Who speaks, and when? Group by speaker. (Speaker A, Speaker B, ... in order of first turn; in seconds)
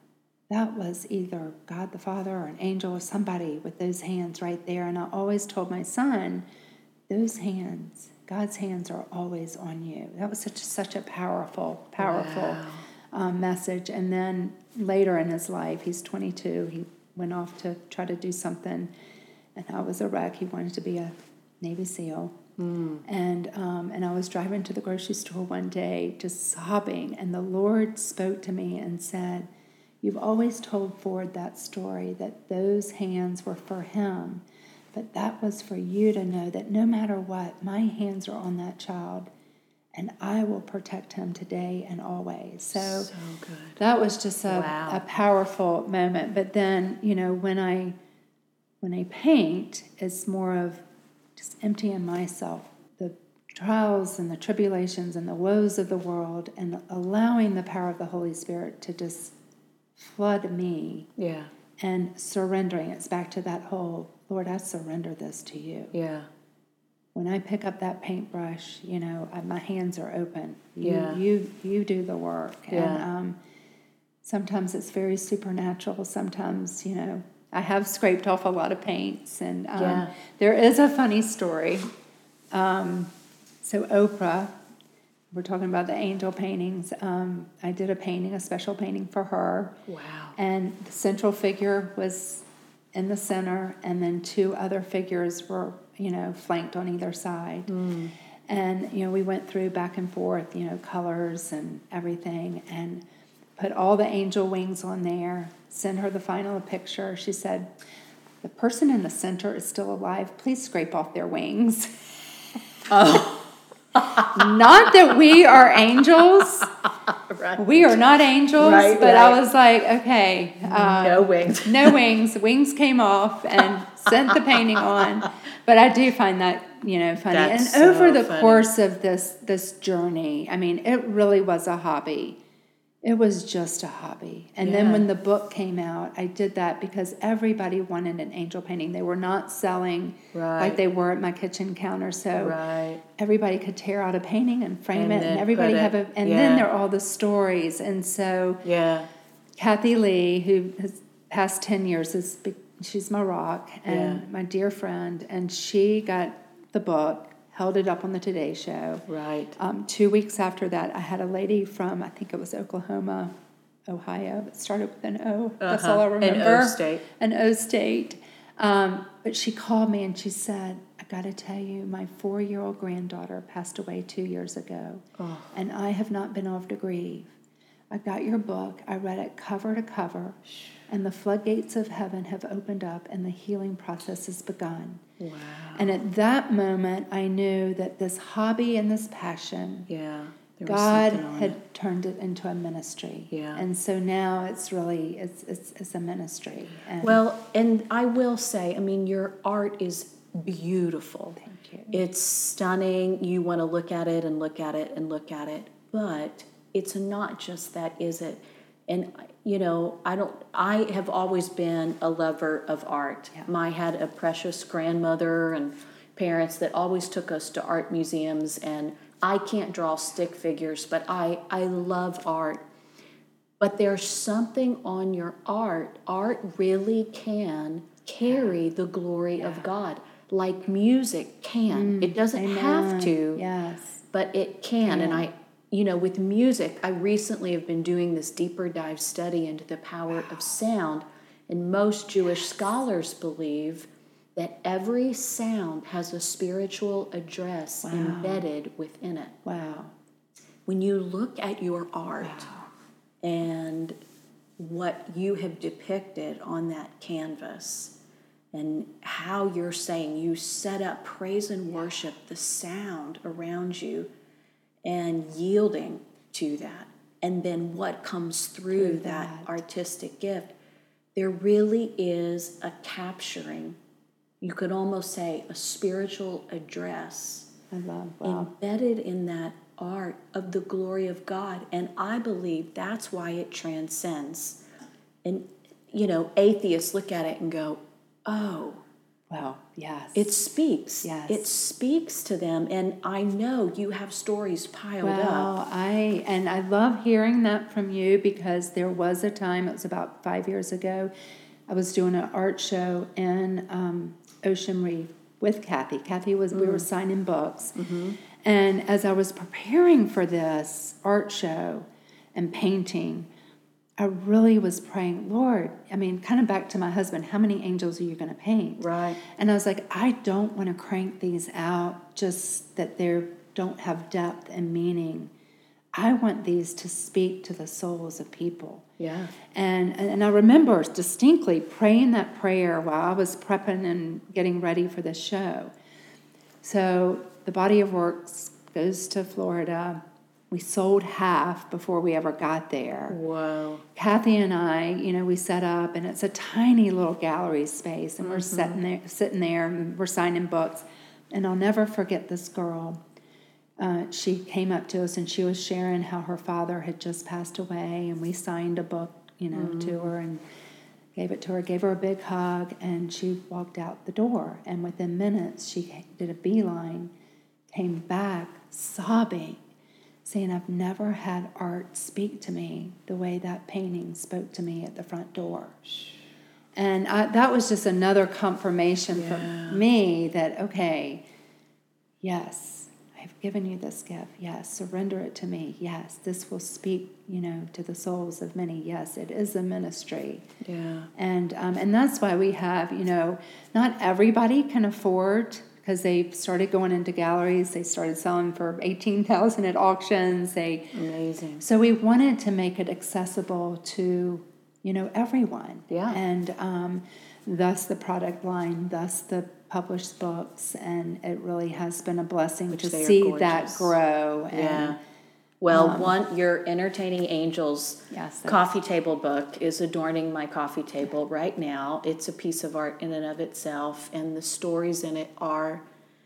Speaker A: 0.5-6.5, 7.1-18.9, 19.6-22.4, 23.1-29.5, 30.0-39.3, 39.9-43.1, 43.8-48.0, 48.8-50.9, 51.4-59.4, 60.0-61.1, 61.8-65.9, 67.2-73.4, 74.2-81.9, 82.5-83.1, 83.6-84.5, 85.3-89.8, 90.4-97.7, 98.5-103.0, 103.6-107.7, 108.4-111.9, 114.2-116.7, 117.6-132.4, 133.0-142.6, 143.2-148.6, 149.6-159.1, 159.6-163.3, 163.9-177.3, 177.9-185.0, 185.8-189.9, 190.7-197.2, 201.4-202.0, 228.3-228.6, 229.4-229.7, 231.7-234.0, 234.8-235.3, 247.9-248.4, 249.4-249.9, 252.2-252.6, 268.7-269.6, 277.7-278.5, 289.3-290.3, 291.0-291.4, 295.0-301.1, 301.7-307.8, 308.4-313.3, 314.0-325.3, 325.9-328.9, 329.5-335.7, 336.6-343.2, 343.9-353.0, 353.8-360.4, 361.1-367.1, 367.7-369.6, 370.2-375.8, 376.8-381.2, 382.2-390.5, 391.1-400.9, 401.6-415.0, 415.7-416.2, 418.1-418.7
Speaker B: 12.0-12.9, 22.6-23.0, 42.8-43.8, 44.5-45.0, 61.2-61.5, 65.9-66.3, 70.8-71.2, 72.7-73.1, 79.8-80.1, 89.9-90.4, 97.7-98.2, 112.9-113.4, 114.0-114.4, 116.4-118.0, 118.6-119.4, 120.6-122.0, 124.5-125.3, 127.3-128.7, 134.6-135.1, 140.3-140.8, 142.4-143.0, 144.9-146.7, 148.6-149.1, 153.9-154.2, 159.1-159.6, 165.6-167.0, 175.2-175.5, 185.2-185.9, 189.9-191.6, 193.3-193.7, 197.0-222.6, 223.6-233.4, 234.1-249.4, 250.7-252.5, 253.2-254.0, 254.6-257.9, 258.5-264.1, 264.9-270.6, 271.2-273.8, 274.4-277.5, 278.2-284.6, 285.2-288.8, 290.1-295.5, 306.5-306.9, 307.8-308.2, 318.8-319.2, 329.0-329.4, 343.1-343.9, 348.2-348.8, 359.5-360.1, 379.1-379.8, 390.6-391.1, 400.9-401.6, 405.9-406.2, 412.7-413.9, 414.5-415.0, 415.6-425.8